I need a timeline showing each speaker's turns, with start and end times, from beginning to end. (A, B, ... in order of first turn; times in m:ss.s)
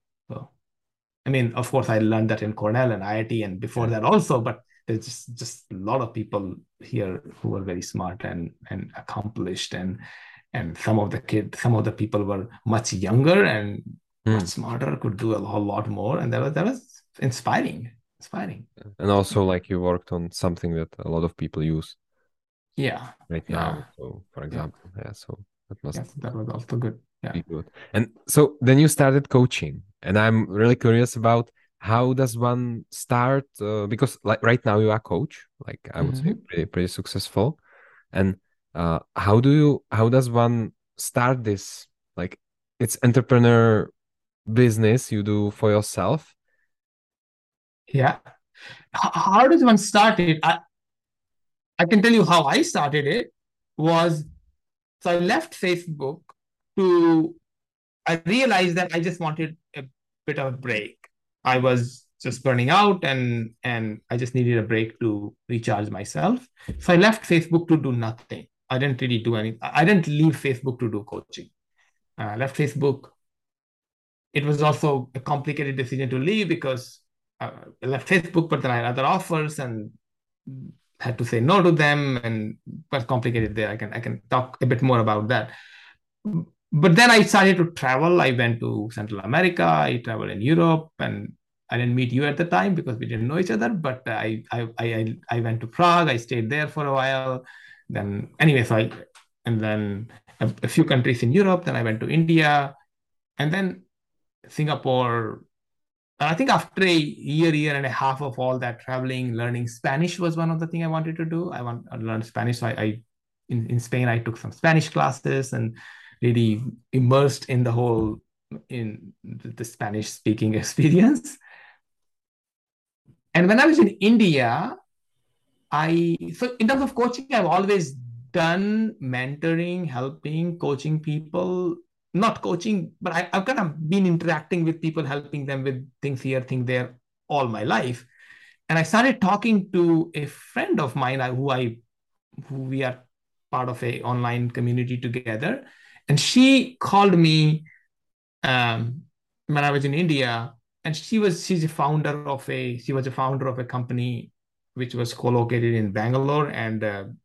0:01.3-0:10.0 A
0:10.5-0:18.7 A
0:19.0-0:22.0 B
0:22.8-0:23.8 A
0:23.3-0:26.0 B
0:25.9-0:27.4 A
0:27.4-0:37.6 B
0:36.0-0:36.4 A
0:38.1-0:43.9 B
0:44.5-0:46.3 B
0:47.9-0:48.2 A
0:48.9-0:50.6 A
0:51.8-0:54.3 A
0:55.0-0:57.4 A
0:58.1-1:11.5 A
1:12.2-1:13.1 A
1:14.3-1:19.9 A
1:20.5-1:25.5 A
1:26.2-1:42.8 A
1:43.4-1:43.8 A
1:44.5-1:45.4 A
1:46.2-2:01.4 A
2:03.3-2:04.8 A
2:05.7-2:18.1 A
2:18.7-2:21.8 A
2:22.4-2:27.7 A
2:28.4-2:37.1 A